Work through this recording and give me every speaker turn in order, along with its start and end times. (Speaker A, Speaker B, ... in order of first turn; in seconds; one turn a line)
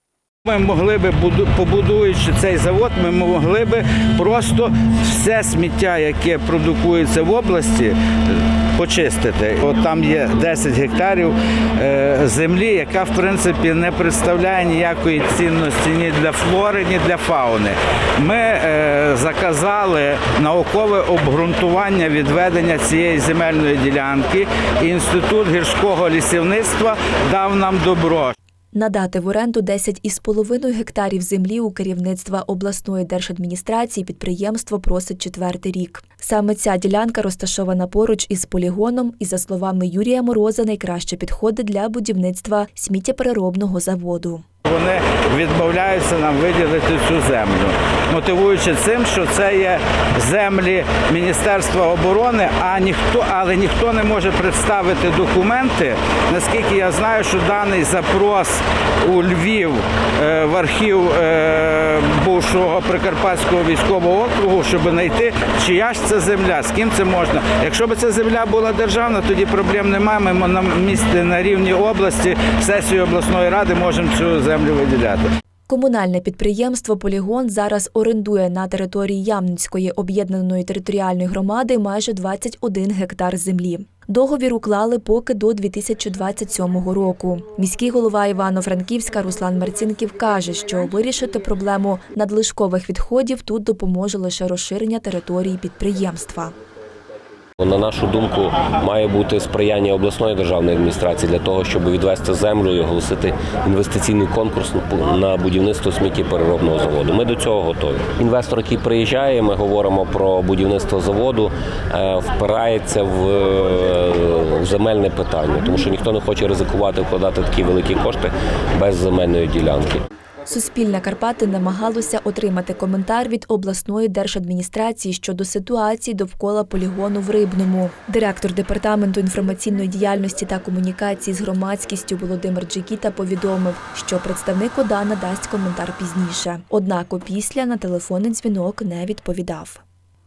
Speaker A: 0.5-28.3
Speaker B: 28.7-44.4
Speaker A: 44.6-75.3
Speaker B: 75.7-96.5
Speaker C: 97.6-120.0
Speaker B: 120.5-139.8